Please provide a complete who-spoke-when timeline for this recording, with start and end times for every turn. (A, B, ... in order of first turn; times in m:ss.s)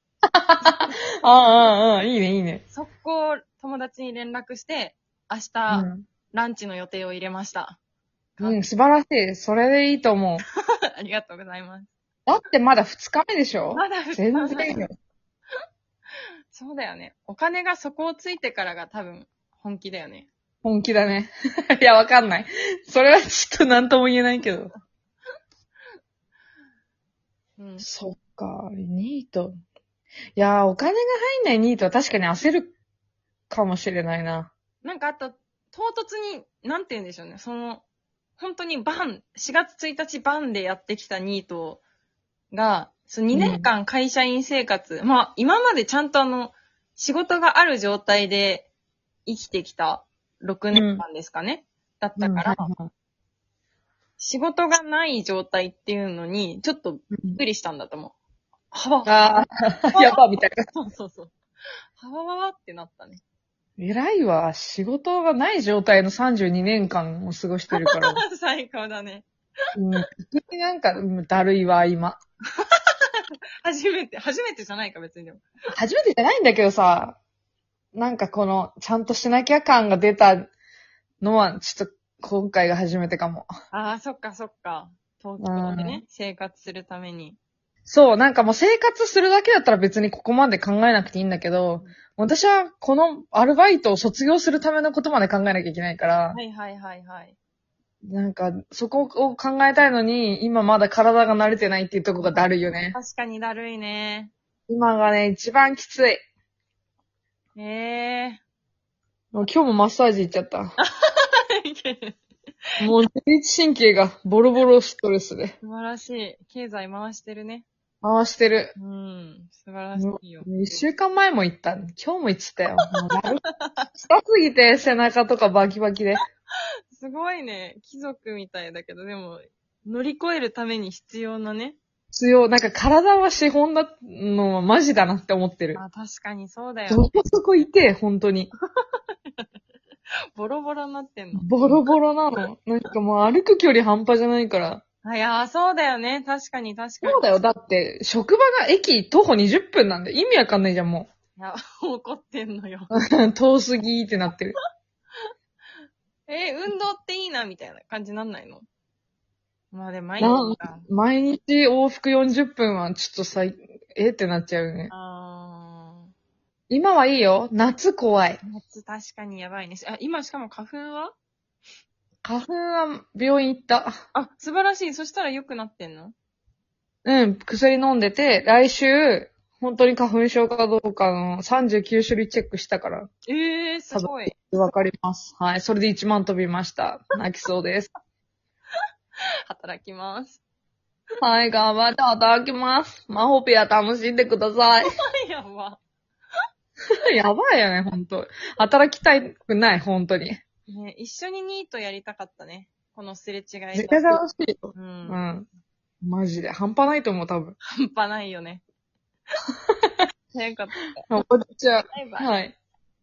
0:00.2-0:02.6 A
0:02.7-0:07.8 B
0:05.7-0:06.1 A
0:08.4-0:10.4 A
0:11.0-0:11.9 B
0:12.2-0:14.9 A
0:13.7-0:14.8 B
0:16.5-0:20.3 B
0:20.6-0:24.7 A
0:27.6-0:27.8 B
0:27.8-0:29.5 A
0:30.4-0:32.7 A
0:33.5-0:34.5 A
0:34.8-0:37.8 B
0:38.4-0:41.8 B
0:42.5-0:48.7 B
0:43.3-0:43.7 A
0:49.2-0:52.7 B
0:50.7-0:51.0 A
0:52.2-0:52.9 A
0:54.2-0:58.1 B
0:57.1-0:57.4 A
0:58.7-1:01.3 B
0:59.0-1:00.6 A
1:02.0-1:03.2 B
1:03.8-1:08.2 A
1:07.7-1:09.2 B
1:09.7-1:12.2 A
1:12.5-1:15.4 B
1:15.7-1:17.2 A
1:17.9-1:20.5 A
1:21.2-1:23.5 A
1:23.7-1:27.4 B
1:25.4-1:26.0 A
1:27.9-1:36.4 A
1:36.3-1:37.3 B
1:38.0-1:43.0 A
1:42.2-1:44.3 B
1:44.7-1:46.2 A
1:47.5-1:48.4 B
1:49.3-1:50.8 A
1:50.8-1:52.2 B
1:52.8-1:55.6 A
1:55.6-1:57.6 B
1:58.0-1:58.7 A
1:58.8-2:00.8 B
1:59.9-2:03.4 A
2:02.9-2:03.9 B
2:04.0-2:06.2 A
2:06.6-2:11.8 B
2:12.1-2:15.8 A
2:15.7-2:17.0 B
2:16.9-2:18.5 A
2:19.0-2:19.4 B
2:20.3-2:22.0 B
2:21.3-2:24.8 A
2:25.0-2:27.4 B
2:27.0-2:31.1 A
2:31.4-2:32.9 B
2:32.9-2:34.6 A
2:36.3-2:38.6 B
2:39.7-2:40.9 B
2:40.2-2:44.9 A
2:44.9-2:46.1 B
2:46.7-2:48.4 A
2:48.4-2:51.1 B
2:52.2-2:53.9 A
2:54.1-2:56.1 B
2:57.0-3:03.1 A
3:03.3-3:04.4 B
3:03.9-3:07.9 A
3:09.5-3:10.4 B
3:11.2-3:14.9 A
3:15.2-3:15.8 B
3:16.9-3:20.4 A
3:20.7-3:24.2 B
3:23.7-3:25.5 A
3:24.7-3:25.2 B
3:26.0-3:27.6 A
3:27.6-3:28.6 B
3:30.3-3:31.0 B
3:31.1-3:32.6 A
3:31.9-3:32.3 B